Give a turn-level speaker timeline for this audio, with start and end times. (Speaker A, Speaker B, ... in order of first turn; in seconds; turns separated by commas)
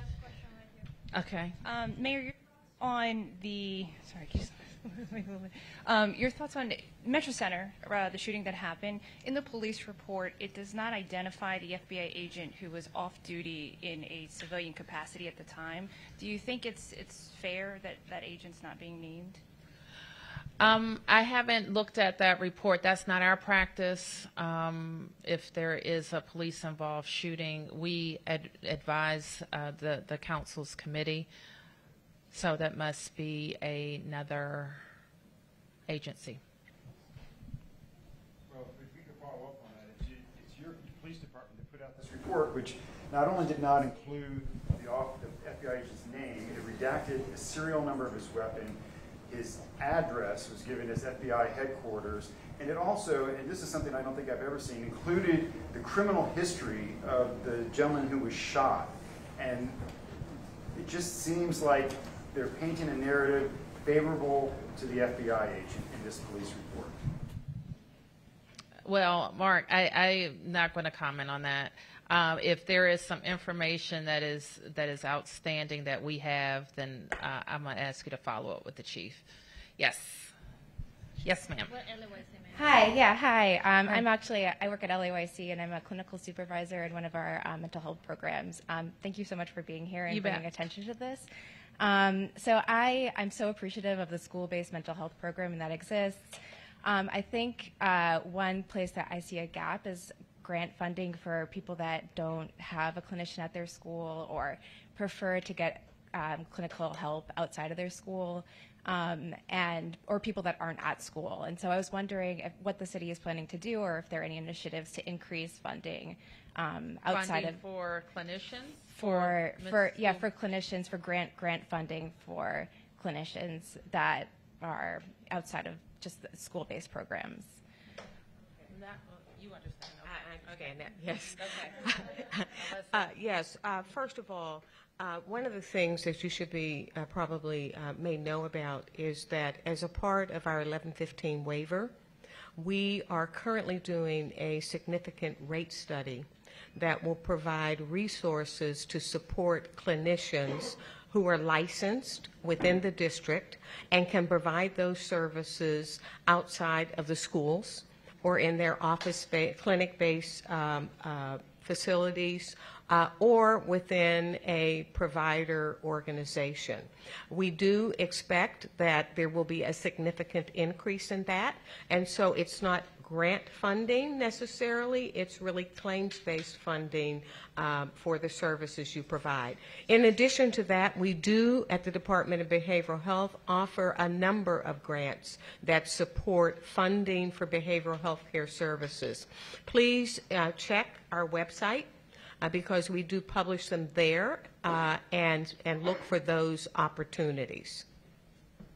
Speaker A: 1.1-1.6, Speaker B: 1.6-19.4, Speaker A: 20.6-31.3, Speaker A: 32.3-34.8, Speaker A: 35.9-36.4, Speaker C: 38.5-59.8, Speaker C: 60.7-67.0, Speaker A: 68.8-79.2, Speaker A: 79.8-80.3, Speaker A: 81.2-82.2, Speaker D: 82.5-91.3, Speaker A: 90.1-90.5, Speaker D: 91.8-96.3, Speaker D: 96.8-117.6, Speaker A: 117.1-120.3, Speaker D: 119.0-127.6, Speaker A: 128.7-130.7, Speaker E: 130.1-141.9, Speaker A: 131.3-131.8, Speaker A: 132.6-133.0, Speaker E: 142.6-191.9, Speaker E: 192.4-197.8